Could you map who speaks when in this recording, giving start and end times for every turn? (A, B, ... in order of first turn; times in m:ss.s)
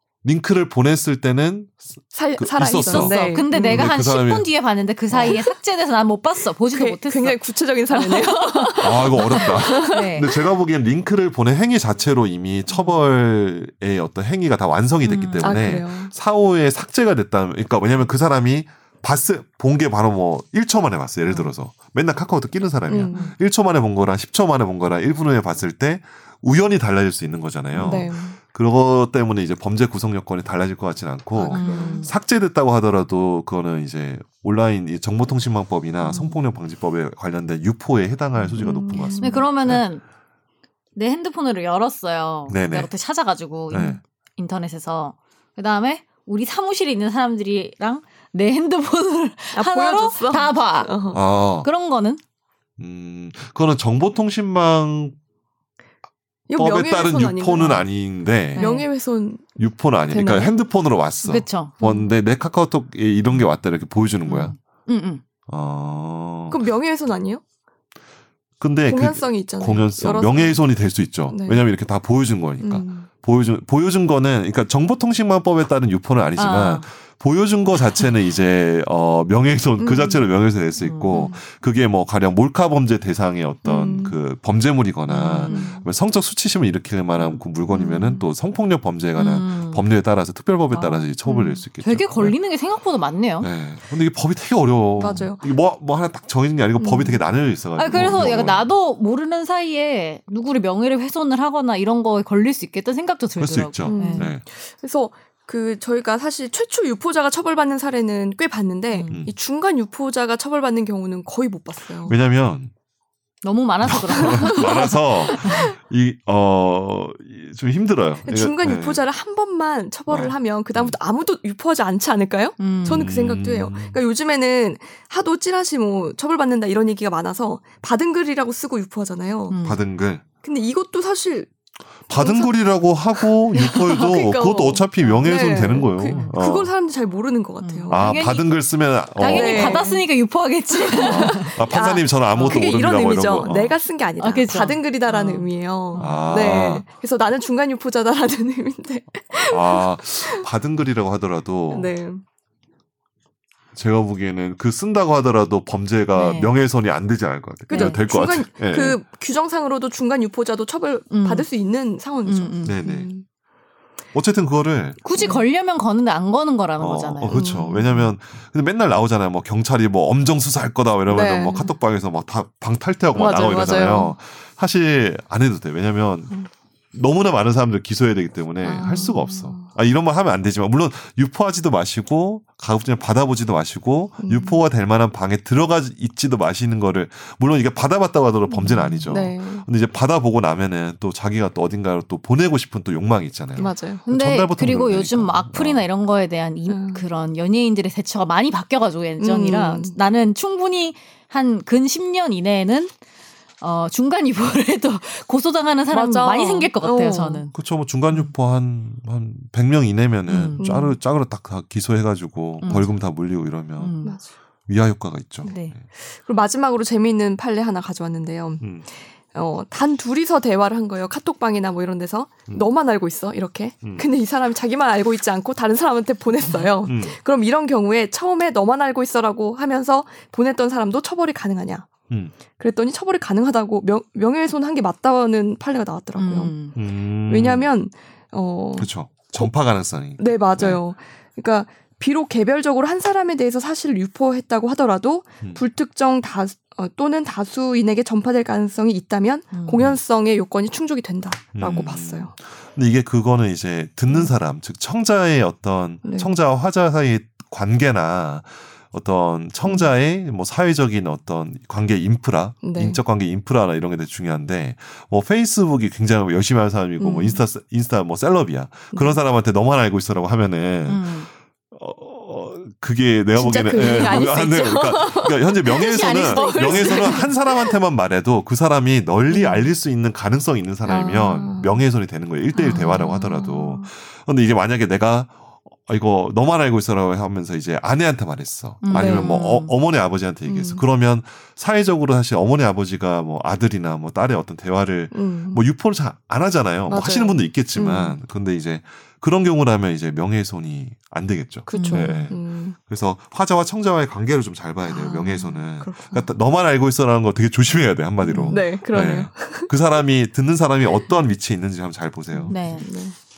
0:00.2-0:01.8 A
0:02.1-0:03.9 B
0:02.4-0:04.5 A
0:02.8-0:10.3 C
0:05.1-0:05.4 A
0:06.7-0:10.4 B
0:08.8-0:39.8 A
0:15.0-0:15.6 C
0:15.4-0:16.1 B
0:22.9-0:23.3 B
0:27.7-0:28.4 B
0:31.3-0:32.1 B
0:31.5-0:32.1 C
0:36.0-0:36.4 C
0:38.6-0:39.4 B
0:39.2-0:40.0 C
0:41.0-0:52.2 C
0:42.5-0:42.9 A
0:43.7-0:44.0 A
0:49.5-0:51.2 B
0:51.1-0:51.7 A
0:52.8-0:55.1 A
0:56.5-0:57.9 B
0:56.5-0:58.7 A
0:58.5-0:58.9 C
0:58.5-0:59.5 B
0:59.6-1:04.6 A
1:00.1-1:00.5 B
1:01.2-1:01.8 C
1:01.8-1:02.1 B
1:04.2-1:05.2 C
1:05.5-1:06.6 A
1:06.5-1:07.4 B
1:08.6-1:32.3 A
1:08.9-1:10.6 B
1:11.3-1:11.6 B
1:12.6-1:13.1 B
1:16.4-1:16.8 C
1:19.8-1:20.2 B
1:20.8-1:21.4 C
1:23.6-1:24.1 B
1:25.1-1:25.8 C
1:25.4-1:25.8 B
1:27.7-1:28.3 B
1:29.2-1:29.8 C
1:30.7-1:31.6 B
1:31.8-1:33.5 C
1:33.4-1:38.7 A
1:35.0-1:35.4 B
1:36.8-1:37.2 B
1:37.8-1:44.3 C
1:43.4-1:44.4 A
1:43.9-1:52.1 B
1:48.9-1:49.2 C
1:49.1-1:49.3 A
1:52.0-1:52.7 A
1:53.4-1:55.7 C
1:53.8-1:59.0 A
1:54.2-1:55.7 B
1:58.2-2:09.6 B
2:00.1-2:01.0 A
2:02.6-2:03.1 C
2:02.9-2:04.0 A
2:09.5-2:09.8 C
2:09.6-2:10.2 A
2:10.4-2:11.5 B
2:12.1-2:12.5 B
2:12.1-2:16.7 A
2:13.2-2:18.4 B
2:16.1-2:16.3 C
2:17.6-2:18.5 C
2:17.9-2:19.8 A
2:19.2-2:21.6 C
2:19.2-2:20.0 B
2:20.7-2:30.4 B
2:21.0-2:23.8 A
2:22.3-2:22.6 C
2:24.2-2:26.3 C
2:26.0-2:26.8 A
2:29.5-2:31.9 A
2:31.7-2:32.2 B
2:33.7-2:39.0 A
2:36.1-2:36.5 C
2:37.7-2:43.2 B
2:37.7-2:38.0 C
2:41.1-2:41.5 C
2:42.2-2:42.8 C
2:42.6-2:43.1 A
2:44.1-2:45.1 A
2:45.0-2:47.4 C
2:45.2-2:45.4 B
2:46.8-3:15.8 A
2:47.3-2:48.1 B
2:51.1-2:51.7 B
2:53.1-2:54.2 B
2:58.6-2:59.7 B
3:04.2-3:04.6 B
3:08.5-3:09.7 B
3:13.6-3:14.0 B
3:14.1-3:22.9 C
3:16.7-3:17.0 B
3:19.2-3:19.9 B
3:23.6-3:27.5 C
3:25.9-3:27.4 B
3:27.5-3:33.9 A
3:30.3-3:30.7 C
3:30.6-3:30.9 B
3:32.6-3:32.9 C
3:33.8-3:34.2 C
3:34.7-3:35.8 A
3:35.4-3:35.7 C
3:35.4-3:51.9 B
3:38.6-3:38.8 A
3:46.8-3:47.2 A
3:52.5-3:56.6 B
3:56.2-3:56.7 C
3:56.7-3:57.7 A
3:57.3-3:59.5 B
3:58.8-4:00.8 A
4:00.2-4:12.3 B
4:09.5-4:09.8 C
4:11.5-4:31.2 A
4:16.0-4:16.3 B
4:22.6-4:23.0 B
4:27.0-4:27.4 B
4:30.9-4:31.3 C
4:31.7-5:12.6 A
4:33.3-4:37.7 B
4:35.8-4:37.3 C
4:39.3-4:39.6 B
4:40.8-4:41.8 B
4:42.6-4:43.2 C
4:42.6-4:43.9 B
4:48.8-4:49.7 C
4:48.9-4:49.4 B
4:50.5-4:50.8 B
4:55.1-4:55.6 B
4:56.9-4:58.1 B
5:01.7-5:02.8 B
5:01.7-5:02.2 C
5:04.8-5:06.2 B
5:08.2-5:09.7 B
5:08.3-5:08.6 C
5:12.3-5:13.2 B
5:12.5-5:12.9 C